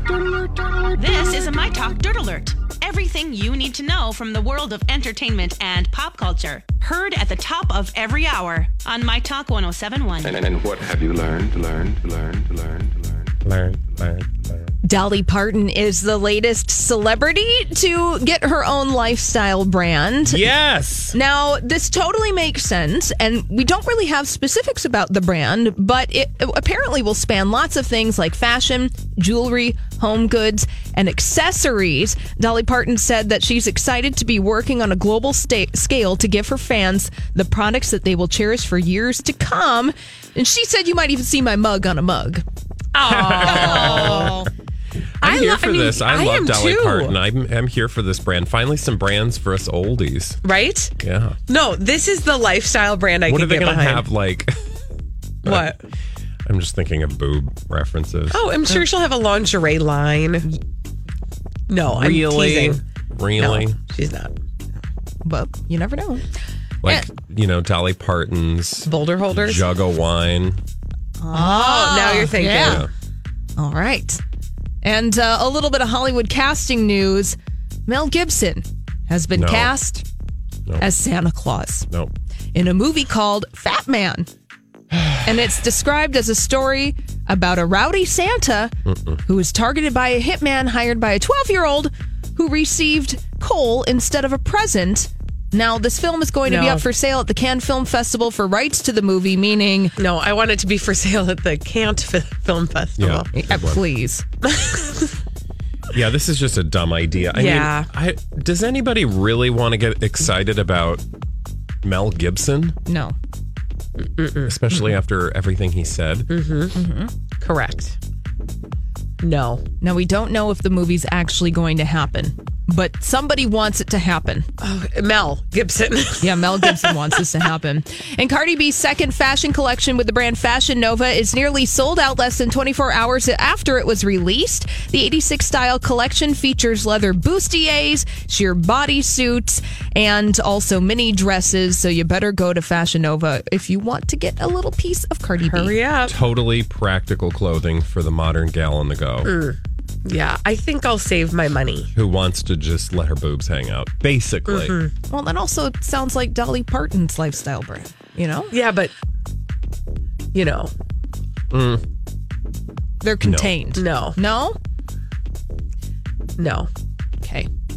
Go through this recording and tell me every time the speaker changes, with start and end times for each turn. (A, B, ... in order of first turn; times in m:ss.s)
0:00.9-0:10.4 A
0:10.3-0:13.0 B
0:13.4-0:14.5 C
0:14.8-0:20.5 D
0:20.2-0:21.2 C
0:21.1-0:42.4 D
0:42.9-0:44.4 E
0:43.0-0:44.4 C
0:43.4-0:44.4 D
0:45.2-0:47.2 E
0:45.2-0:50.4 C
0:50.4-0:51.0 E
0:51.0-0:51.4 C
0:51.5-0:54.1 E
0:53.3-0:54.7 C
0:55.4-0:55.8 C
0:55.4-0:55.8 E
0:56.4-0:58.5 C
0:58.3-1:00.5 E
1:01.7-1:02.8 E
1:01.9-1:03.8 C
1:03.4-1:04.3 E
1:05.2-1:06.2 D
1:06.8-1:10.6 C
1:08.8-1:09.6 E
1:11.2-1:12.8 D
1:11.3-1:12.9 E
1:12.4-1:12.9 C
1:13.6-1:14.2 D
1:14.8-1:17.4 D
1:17.9-1:20.0 D
1:19.3-1:19.7 C
1:20.8-1:21.9 D
1:22.5-1:24.3 D
1:25.2-1:40.0 D
1:28.9-1:29.2 C
1:36.4-1:36.8 E
1:40.0-1:43.3 E
1:43.0-1:43.8 C
1:43.3-1:44.2 D
1:44.5-1:45.1 E
1:45.9-1:51.0 C
1:47.3-1:47.9 E
1:51.8-1:52.8 C
1:52.8-1:53.2 D
1:54.0-1:54.6 E
1:54.4-1:56.3 C
1:56.3-1:56.8 E
1:56.7-1:57.1 D
1:57.4-1:58.0 E
1:59.2-1:59.6 E
1:59.8-2:04.5 D
2:04.6-2:07.2 E
2:06.2-2:25.8 D
2:25.4-2:26.2 E
2:26.1-2:29.3 C
2:29.2-2:31.9 E
2:31.9-2:34.8 C
2:34.5-2:34.9 E
2:35.1-2:38.5 D
2:38.5-2:38.9 E
2:40.3-2:40.7 E
2:41.5-2:41.8 C
2:43.0-2:44.6 D
2:43.2-2:43.6 C
2:43.7-2:44.2 E
2:46.4-2:46.7 E
2:47.2-2:47.5 D